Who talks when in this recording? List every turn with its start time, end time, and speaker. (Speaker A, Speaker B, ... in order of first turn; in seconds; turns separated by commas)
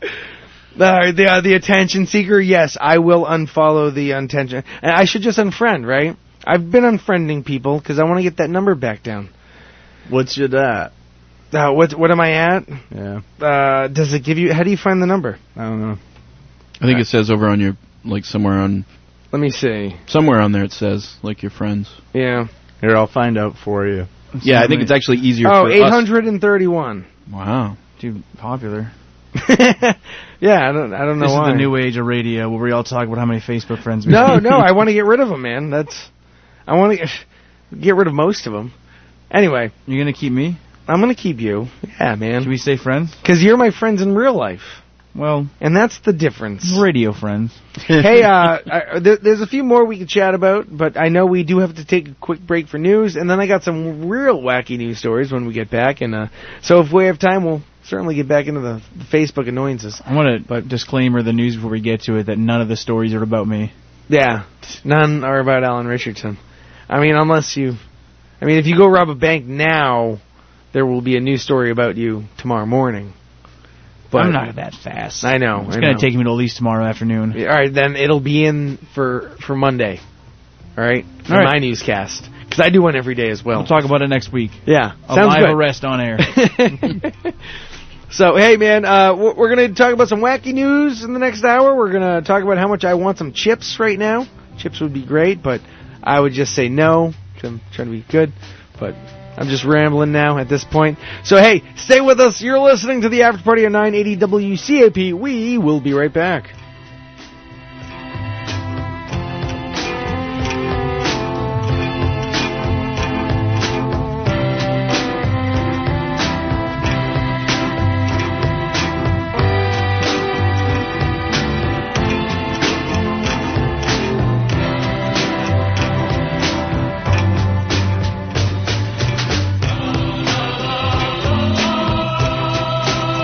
Speaker A: 0.8-9.3, Speaker B: 10.1-10.9, Speaker A: 11.5-12.8, Speaker B: 12.9-13.2, Speaker A: 13.4-15.4, Speaker B: 15.6-16.0, Speaker C: 16.8-18.9, Speaker A: 19.3-20.0, Speaker C: 20.1-22.0, Speaker A: 22.1-22.5, Speaker B: 22.8-24.1, Speaker D: 24.3-24.9, Speaker C: 24.4-26.1, Speaker A: 25.4-27.1, Speaker C: 27.3-27.8, Speaker D: 28.0-28.9, Speaker A: 29.4-31.7, Speaker D: 31.2-34.7, Speaker A: 34.1-36.1, Speaker A: 36.7-38.7, Speaker A: 39.3-39.7, Speaker D: 39.9-40.6, Speaker A: 40.9-42.5, Speaker D: 42.4-43.2, Speaker A: 43.2-44.8, Speaker D: 45.1-45.5, Speaker A: 45.6-46.8, Speaker D: 46.6-47.6, Speaker A: 47.9-60.0, Speaker D: 60.0-63.7, Speaker A: 64.1-66.4, Speaker A: 66.9-67.8, Speaker A: 68.4-70.2, Speaker A: 70.7-73.1, Speaker A: 74.1-74.5, Speaker D: 74.1-77.4, Speaker A: 75.2-76.1, Speaker A: 77.3-80.0, Speaker A: 80.8-83.7, Speaker D: 81.3-81.5, Speaker D: 83.5-86.3, Speaker A: 84.7-85.6, Speaker A: 86.2-87.3, Speaker A: 88.1-106.5